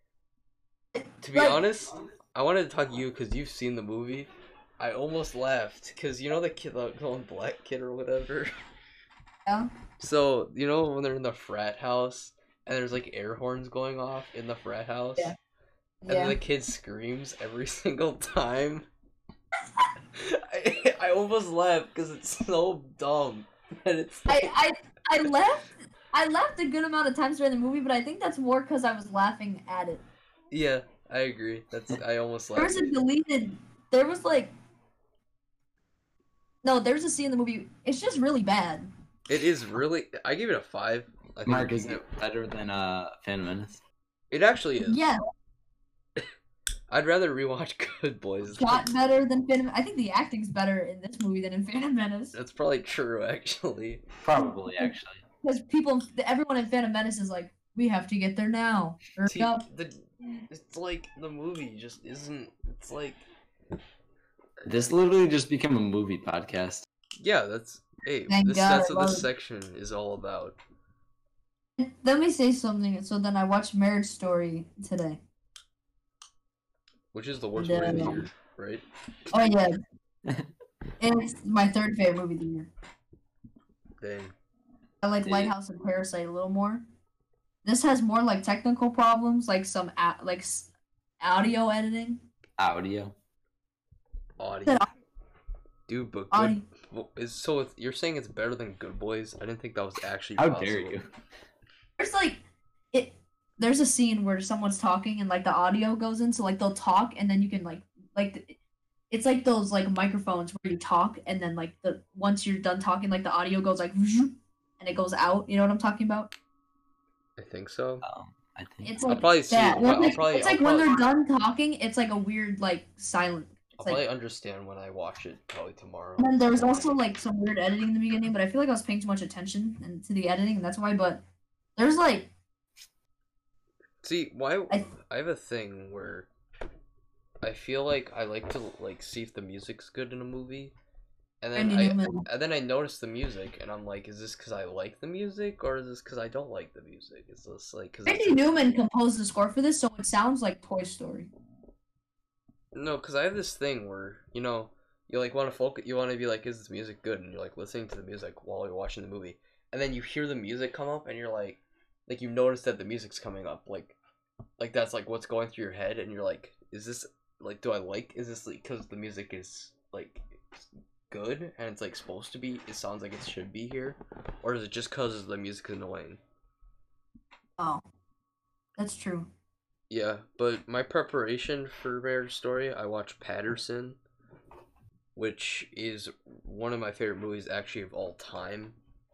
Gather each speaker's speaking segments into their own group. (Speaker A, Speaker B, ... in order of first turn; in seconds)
Speaker A: 0.9-1.6, 16.0-16.4, 24.3-30.0, 32.5-34.5, 36.6-38.9, 44.9-45.2, 48.6-52.3, 54.4-59.6, 68.3-69.3, 71.8-75.2, 77.6-78.3, 79.3-79.8, 81.0-82.7, 85.0-86.8, 87.6-90.7, 91.2-92.2, 94.7-95.0, 96.3-96.6, 102.0-102.4, 102.9-108.6, 109.1-116.3, 118.8-124.0, 126.2-131.2, 131.8-132.3, 141.5-142.2, 148.1-151.3, 178.8-179.3
Speaker B: 1.2-8.5, 10.0-15.3, 16.1-18.9, 20.1-24.5, 30.5-32.9, 39.3-42.0, 44.3-45.0, 46.9-48.9, 52.3-54.0, 59.3-63.2, 67.2-70.6, 77.1-78.8, 84.0-84.3, 94.4-94.9, 95.9-101.0, 117.4-118.0, 119.0-121.1, 123.8-126.9, 134.0-136.3, 137.4-140.7, 141.4-148.7, 152.7-164.0, 164.6-176.2, 179.9-184.0, 185.1-188.8
Speaker C: 41.5-43.8, 54.2-55.2, 64.6-66.8, 85.2-85.5, 92.6-93.1, 100.4-101.1, 118.0-119.0